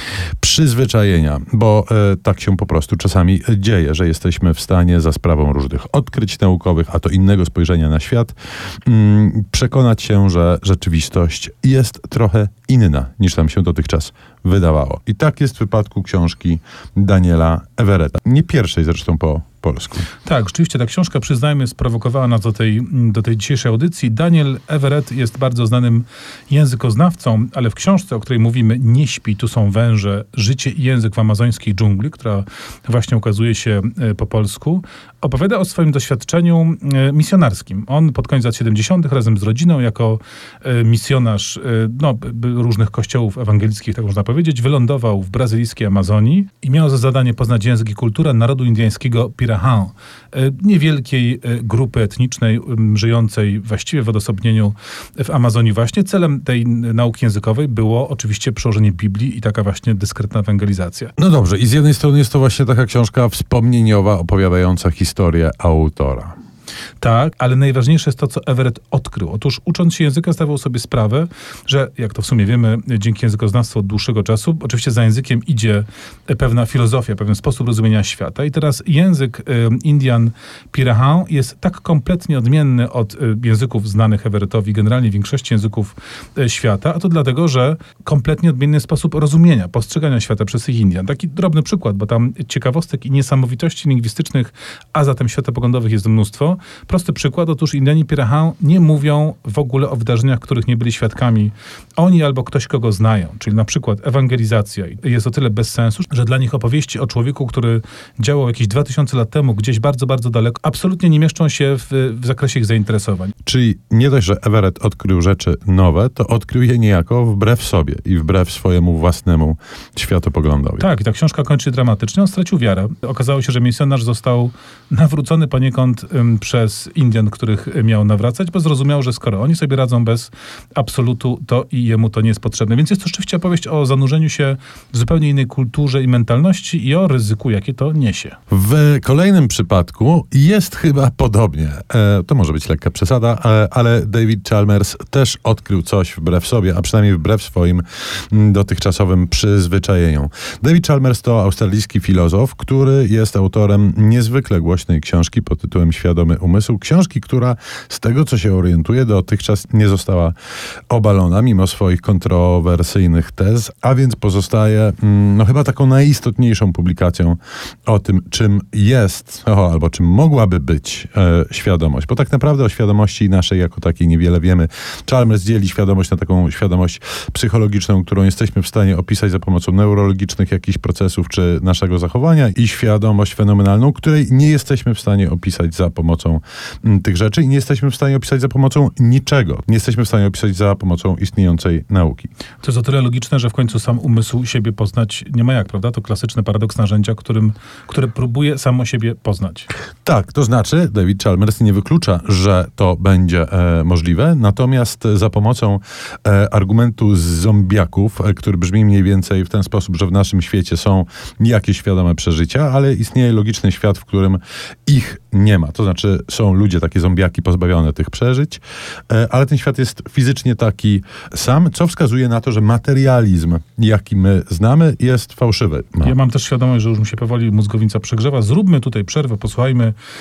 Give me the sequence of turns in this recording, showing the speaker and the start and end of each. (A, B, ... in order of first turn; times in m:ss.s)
0:00.4-0:08.3 A
0:08.8-0:20.1 A
0:20.2-1:01.1 B
1:01.2-1:06.3 A
1:07.0-1:53.3 B
1:53.4-2:00.8 A
2:00.8-2:18.4 B
2:18.5-2:40.3 A
2:40.9-3:12.3 A
3:12.6-3:19.7 B
3:20.0-3:46.1 A
3:46.0-3:50.0 B